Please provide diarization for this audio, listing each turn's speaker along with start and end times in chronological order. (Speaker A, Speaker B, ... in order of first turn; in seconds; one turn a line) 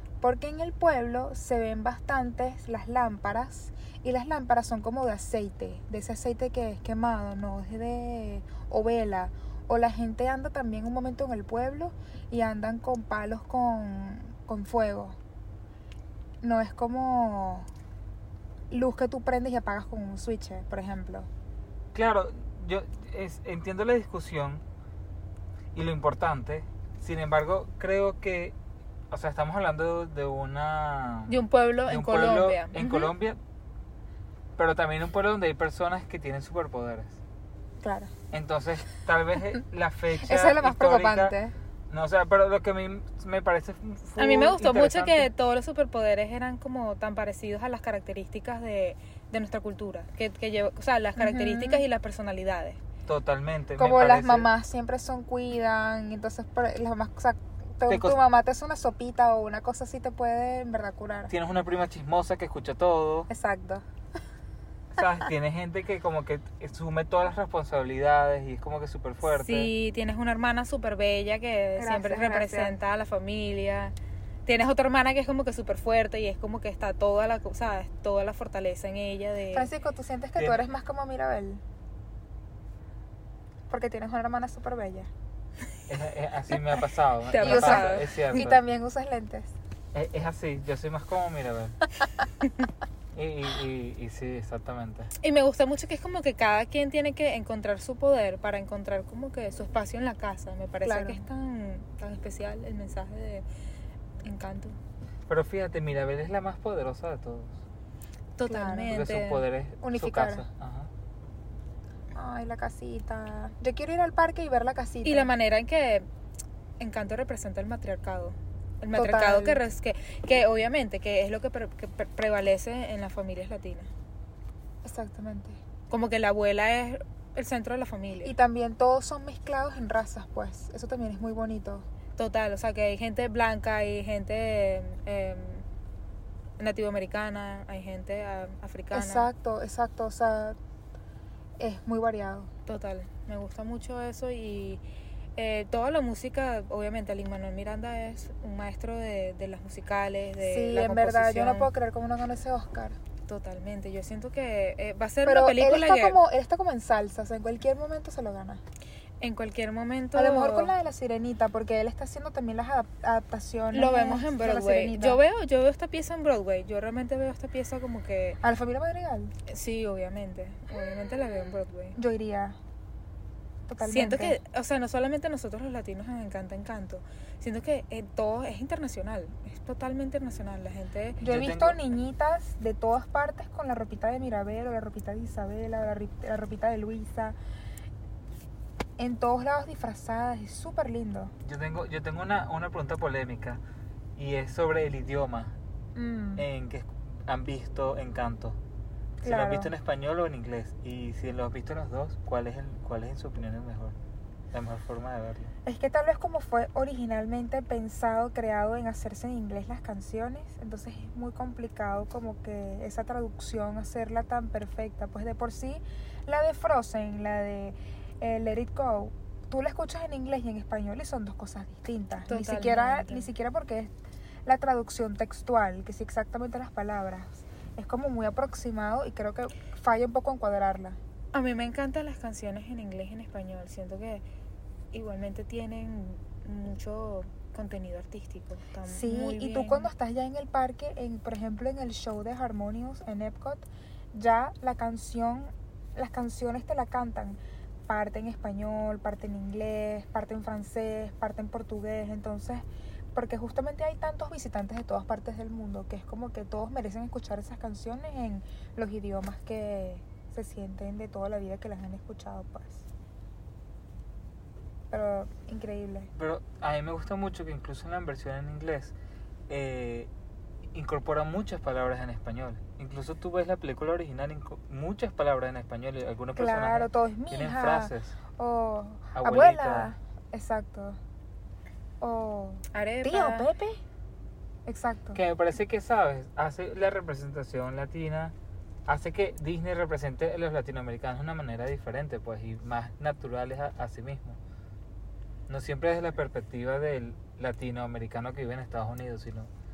Speaker A: 0.2-15.2
Speaker A: 16.4-17.7
Speaker A: 18.7-21.3
Speaker B: 21.9-24.6
Speaker B: 25.7-28.6
Speaker B: 29.1-33.4
Speaker C: 31.3-33.0
Speaker B: 34.6-37.2
Speaker A: 37.8-38.1
Speaker B: 38.3-41.4
Speaker A: 40.2-41.5
Speaker B: 41.9-45.3
Speaker C: 44.2-52.8
Speaker A: 51.2-51.8
Speaker B: 53.1-54.5
Speaker A: 53.8-61.3
Speaker B: 57.9-58.2
Speaker B: 61.3-63.3
Speaker A: 63.3-63.8
Speaker B: 65.0-69.7
Speaker C: 69.2-73.9
Speaker A: 71.8-72.7
Speaker C: 74.5-79.7
Speaker A: 79.5-81.6
Speaker A: 83.7-85.1
Speaker B: 85.9-88.6
Speaker C: 87.3-88.5
Speaker A: 87.4-89.5
Speaker B: 89.9-91.8
Speaker B: 93.1-95.1
Speaker C: 95.2-103.5
Speaker A: 100.8-101.2
Speaker C: 104.2-104.8
Speaker B: 105.3-107.6
Speaker C: 108.4-109.5
Speaker A: 108.5-109.0
Speaker B: 108.9-110.9
Speaker A: 109.8-110.5
Speaker A: 112.2-115.3
Speaker C: 115.0-116.1
Speaker C: 116.8-123.9
Speaker A: 119.0-119.6
Speaker A: 124.8-125.6
Speaker C: 125.9-128.3
Speaker A: 128.2-131.9
Speaker C: 132.2-135.7
Speaker C: 136.6-139.3
Speaker A: 138.9-140.6
Speaker A: 141.6-142.5
Speaker C: 142.7-144.8
Speaker C: 145.4-151.7
Speaker A: 150.4-153.0
Speaker C: 153.3-156.2
Speaker A: 155.2-158.6
Speaker C: 159.2-160.7
Speaker A: 160.2-165.2
Speaker C: 163.7-168.4
Speaker A: 168.4-169.3
Speaker C: 169.5-172.0
Speaker A: 172.0-172.6
Speaker A: 173.7-174.4
Speaker C: 173.8-181.2
Speaker A: 181.2-187.4
Speaker B: 181.2-181.8
Speaker A: 189.0-191.3
Speaker B: 191.4-193.6
Speaker B: 194.2-195.6
Speaker A: 196.0-196.5
Speaker B: 196.4-198.6
Speaker A: 199.2-199.7
Speaker B: 199.2-204.0
Speaker B: 204.5-205.5
Speaker A: 205.7-223.9
Speaker C: 222.3-223.3
Speaker A: 224.5-231.0
Speaker C: 231.3-234.2
Speaker C: 234.9-239.9
Speaker A: 238.9-262.9
Speaker A: 264.9-266.1
Speaker B: 266.1-268.9
Speaker B: 269.5-270.1
Speaker B: 270.7-278.1
Speaker A: 276.4-281.0
Speaker B: 279.1-279.9
Speaker A: 282.0-283.8
Speaker C: 282.7-283.5
Speaker A: 284.7-285.2
Speaker B: 285.1-288.4
Speaker B: 288.9-294.4
Speaker B: 295.5-299.5